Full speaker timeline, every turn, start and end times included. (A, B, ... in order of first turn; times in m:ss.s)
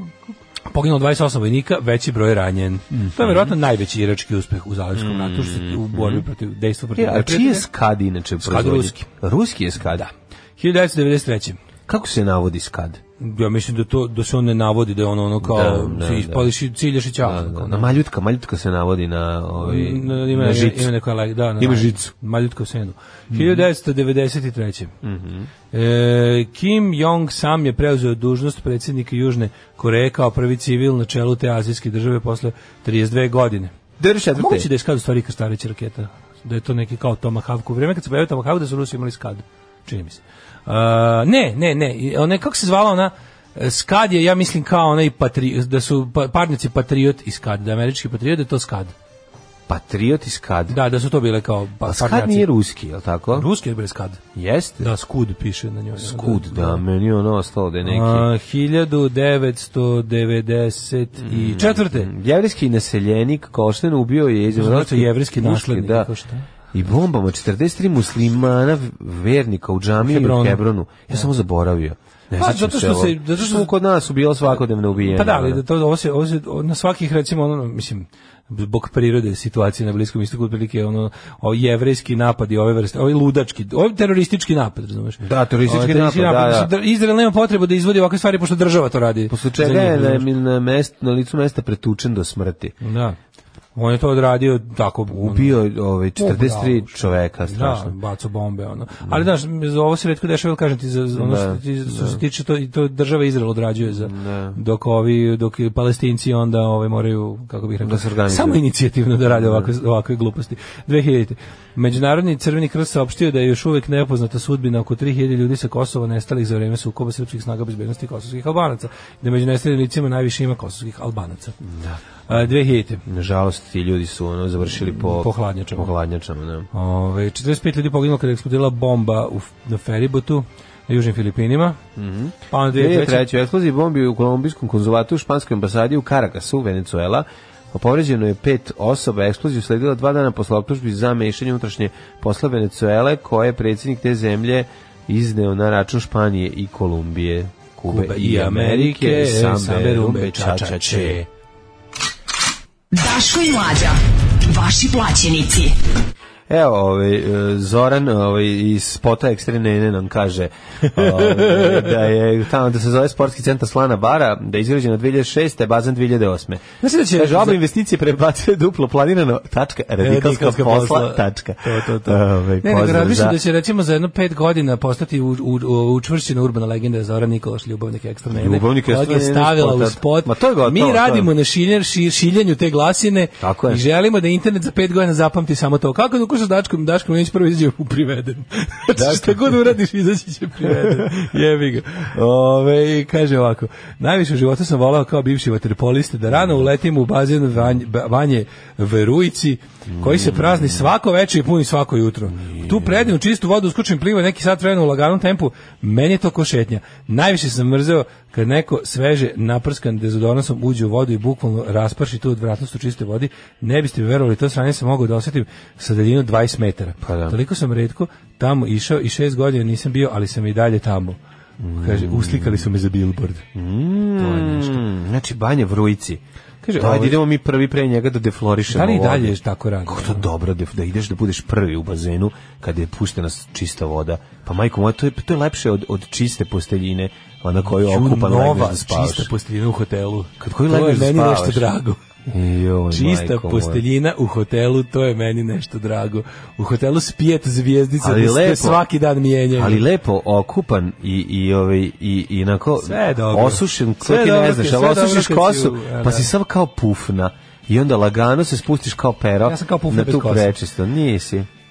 0:00.7-0:07.7 A
0:02.9-0:03.5 B
0:04.9-0:06.2 B
0:07.0-0:10.0 B
0:08.4-0:09.1 A
0:09.9-0:11.6 A
0:11.9-0:13.0 B
0:13.2-0:17.9 A
0:15.4-0:16.5 B
0:17.2-0:20.9 B
0:19.6-0:24.9 A
0:21.6-0:22.0 B
0:23.3-0:23.6 B
0:25.0-0:25.5 B
0:25.7-0:33.7 A
0:34.0-0:34.7 B
0:34.3-0:48.9 A
0:49.7-0:50.8 B
0:50.7-0:52.5 A
0:51.8-0:53.5 B
0:53.3-0:54.2 A
0:54.3-0:54.9 B
0:54.8-0:56.8 A
0:56.0-0:58.3 B
0:57.8-1:02.1 A
1:01.2-1:06.1 B
1:04.5-1:06.4 A
1:06.7-1:15.6 B
1:10.0-1:11.3 A
1:12.4-1:13.7 A
1:15.0-1:30.3 A
1:25.2-1:26.7 B
1:29.3-1:32.7 B
1:32.8-1:33.2 A
1:33.7-1:35.6 A
1:35.1-1:37.9 B
1:36.2-2:01.6 A
1:41.1-1:42.2 B
1:43.8-1:44.6 B
1:47.8-1:48.6 B
1:49.3-1:49.7 B
2:01.6-2:02.5 B
2:02.3-2:03.0 A
2:03.0-2:06.7 B
2:04.9-2:05.9 A
2:06.7-2:11.8 A
2:12.0-2:31.3 B
2:12.5-2:13.2 A
2:27.9-2:31.2 A
2:32.9-2:35.8 C
2:36.5-2:53.4 B
2:41.0-2:41.9 A
2:46.8-2:47.6 A
2:50.0-3:41.2 A
2:58.3-3:01.3 B
3:03.4-3:03.8 B
3:08.9-3:09.7 B
3:10.6-3:11.2 B
3:16.3-3:16.7 B
3:19.9-3:20.9 B
3:22.4-3:23.1 B
3:37.0-3:37.4 B
3:41.6-3:42.7 B
3:41.8-3:43.4 A
3:43.5-3:46.2 B
3:44.2-3:44.8 A
3:46.6-3:47.2 A
3:46.8-3:49.3 B
3:48.7-3:50.3 A
3:49.9-3:59.3 B
3:57.7-4:02.0 A
4:00.4-4:01.7 B
4:02.3-4:03.8 B
4:02.9-4:09.8 A
4:08.0-4:08.8 B
4:09.6-4:21.5 B
4:12.8-4:16.3 A
4:19.4-4:20.5 A